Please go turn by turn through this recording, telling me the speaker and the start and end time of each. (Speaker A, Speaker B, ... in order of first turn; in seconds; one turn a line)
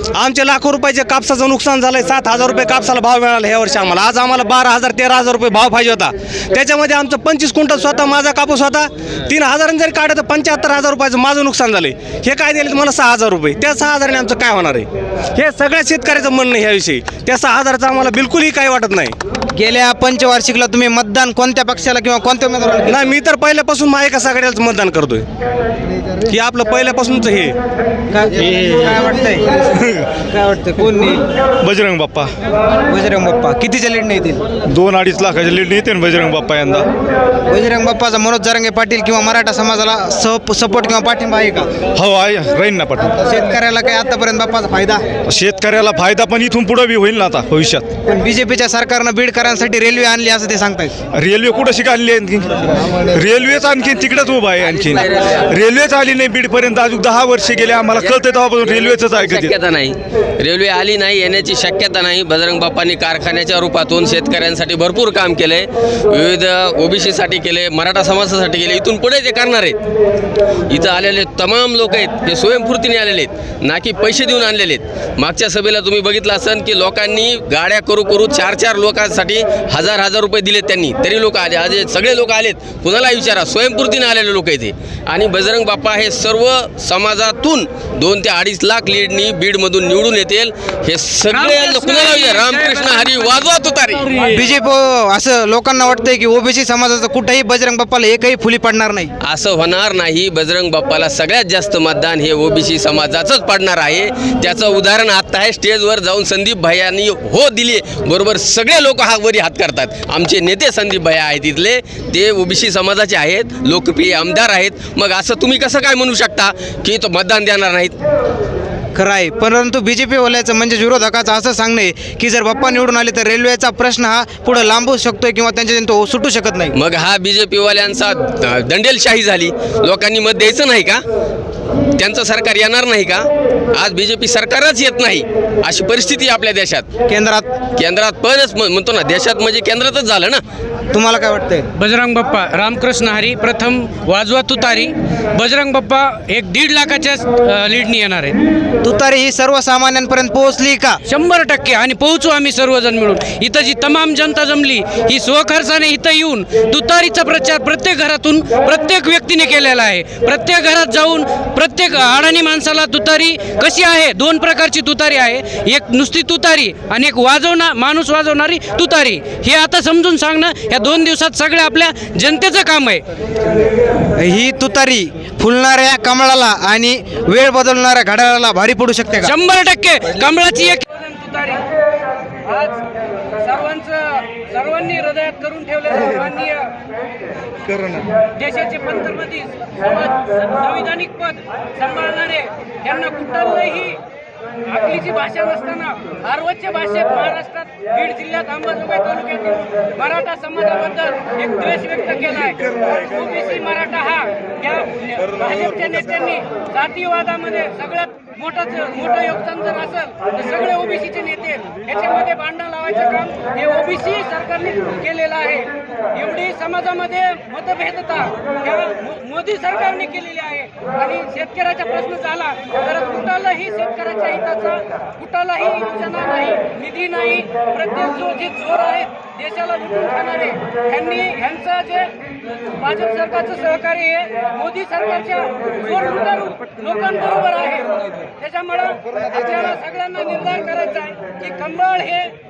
Speaker A: 0.1-19.1
Speaker B: 19.6-23.1
Speaker A: 22.9-25.2
Speaker A: 26.3-27.5
Speaker B: 28.1-29.5
Speaker C: 29.7-30.1
Speaker B: 30.2-31.2
Speaker C: 31.6-32.3
Speaker B: 32.9-34.4
Speaker C: 34.6-36.9
Speaker B: 37.5-41.7
Speaker C: 41.9-43.2
Speaker B: 43.2-45.0
Speaker C: 45.3-47.9
Speaker B: 48.1-50.9
Speaker C: 51.1-59.5
Speaker D: 54.6-55.5
Speaker D: 57.9-69.8
Speaker D: 70.7-94.0
Speaker E: 91.3-93.4
Speaker E: 94.0-94.3
Speaker B: 94.3-99.1
Speaker D: 99.2-118.0
Speaker B: 118.9-126.7
Speaker D: 126.7-131.0
Speaker D: 132.0-136.8
Speaker B: 137.1-137.5
Speaker D: 137.8-140.4
Speaker B: 140.9-141.7
Speaker E: 141.7-148.3
Speaker B: 148.8-151.0
Speaker E: 151.1-173.0
Speaker B: 174.2-179.3
Speaker E: 179.2-181.6
Speaker E: 182.5-182.8
Speaker E: 183.4-186.7
Speaker E: 188.4-194.0
Speaker E: 194.7-232.1
Speaker E: 232.8-242.3